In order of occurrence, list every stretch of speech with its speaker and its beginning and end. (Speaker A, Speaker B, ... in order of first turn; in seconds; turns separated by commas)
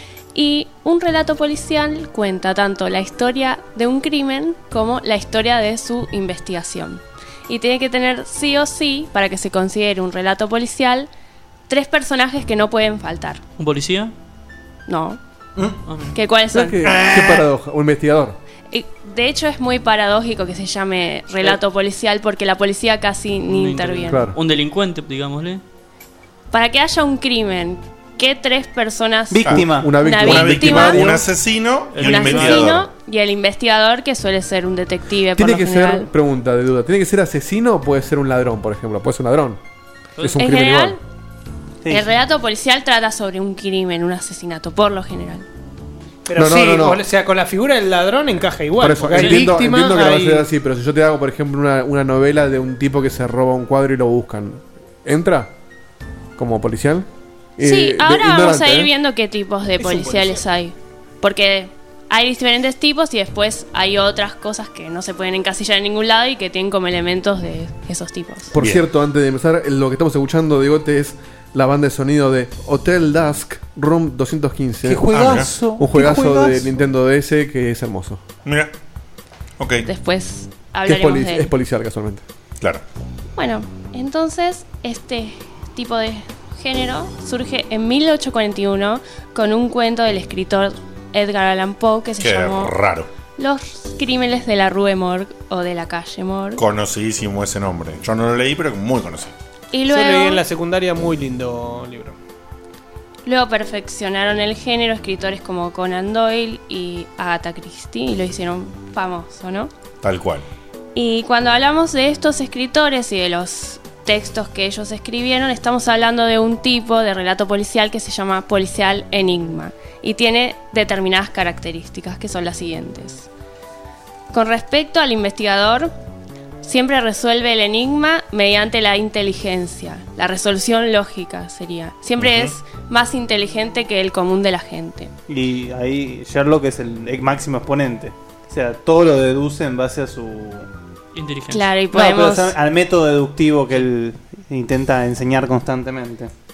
Speaker A: 0.3-11.1, Speaker A: 11.7-13.4, Speaker B: 13.6-14.1, Speaker A: 14.9-15.2, Speaker B: 15.8-16.2, Speaker A: 16.1-16.9, Speaker C: 16.5-18.4, Speaker D: 16.9-17.2, Speaker A: 18.7-24.2, Speaker B: 23.4-25.6, Speaker C: 24.1-24.4, Speaker A: 26.5-31.1, Speaker D: 29.3-29.9, Speaker E: 29.4-32.9, Speaker C: 29.5-31.3, Speaker B: 31.9-32.7, Speaker A: 32.0-36.1, Speaker C: 35.4-39.6, Speaker C: 40.2-41.0, Speaker A: 40.4-41.0, Speaker A: 41.9-45.5, Speaker F: 46.3-50.5, Speaker C: 46.4-47.0, Speaker C: 48.8-55.5, Speaker B: 49.1-49.5, Speaker C: 56.4-58.9, Speaker A: 57.6-68.5, Speaker F: 59.8-60.4, Speaker C: 68.5-78.2, Speaker E: 68.6-68.8, Speaker D: 74.8-76.7, Speaker E: 75.1-75.5, Speaker E: 78.5-78.7, Speaker E: 79.6-79.9, Speaker A: 79.8-81.5, Speaker C: 80.8-82.2, Speaker A: 83.4-92.7, Speaker E: 92.2-93.1, Speaker A: 93.4-96.6, Speaker E: 96.6-99.3, Speaker A: 99.7-100.4, Speaker F: 99.9-102.2, Speaker A: 103.3-109.7, Speaker E: 110.0-110.5, Speaker A: 111.0-123.3, Speaker A: 124.3-125.9, Speaker A: 126.6-135.1, Speaker E: 132.2-132.6, Speaker D: 135.3-140.7, Speaker B: 141.1-141.7, Speaker A: 141.5-142.6, Speaker D: 141.9-146.3